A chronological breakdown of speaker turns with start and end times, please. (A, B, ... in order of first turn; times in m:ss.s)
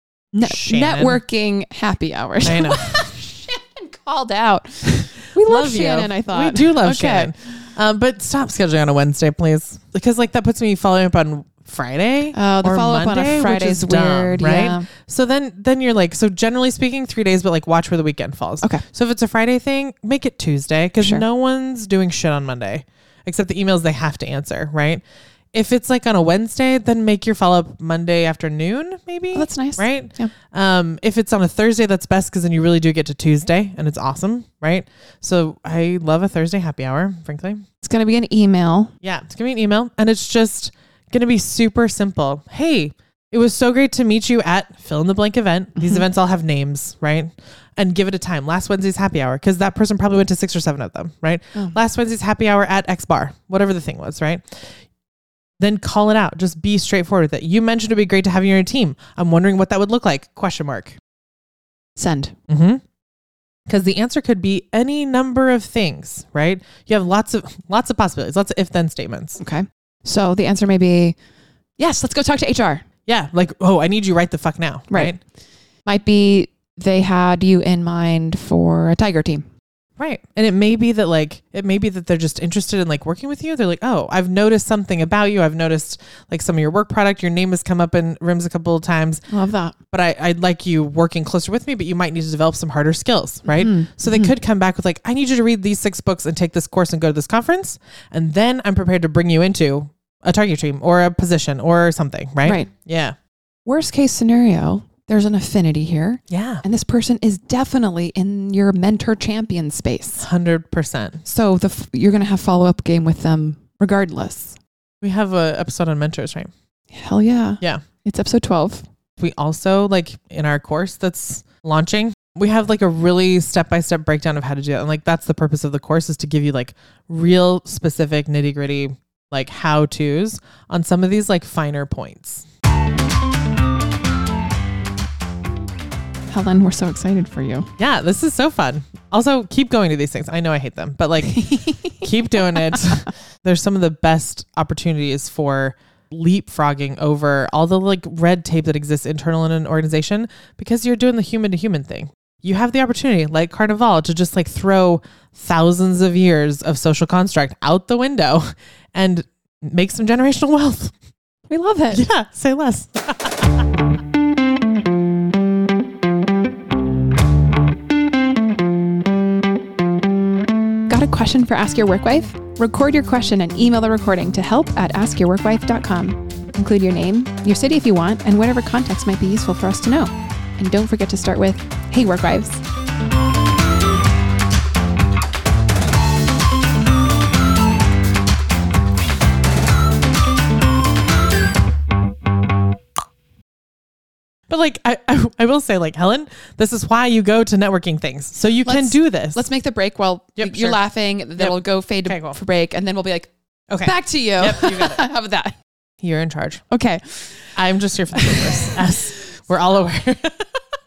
0:00.3-0:07.3 A
0:00.4-0:01.2 B
0:02.4-0:03.1 B
0:05.4-0:37.6 B
0:12.3-0:14.9 A
0:21.0-0:21.2 A
0:29.3-0:30.3 A
0:37.8-0:38.9 A
0:39.0-0:54.6 B
0:45.8-0:46.0 A
0:55.6-1:01.0 B
1:02.0-1:02.3 A
1:02.5-1:02.8 B
1:03.7-1:09.4 B
1:09.4-1:11.2 A
1:11.8-1:12.8 A
1:13.0-1:15.2 B
1:14.9-1:15.2 A
1:15.8-1:19.4 A
1:20.0-1:29.2 B
1:29.3-1:29.8 A
1:29.9-1:43.1 B
1:33.5-1:34.3 A
1:43.6-1:50.2 A
1:46.3-1:46.6 B
1:50.2-1:51.2 B
1:51.2-1:54.6 A
1:55.0-1:56.5 B
1:56.9-1:58.8 A
1:59.2-2:12.4 B
2:16.3-2:17.7 A
2:17.8-2:40.9 B
2:21.3-2:22.0 A
2:41.5-2:42.0 A
2:41.9-2:43.4 B
2:50.9-3:02.6 A
3:14.5-3:19.4 B
3:18.6-3:23.3 A
3:20.4-3:20.8 B
3:21.4-3:22.4 B
3:23.7-3:25.0 B
3:23.8-3:25.5 A
3:26.0-3:26.6 B
3:26.7-3:27.6 A
3:27.6-3:30.5 B
3:28.2-3:28.8 A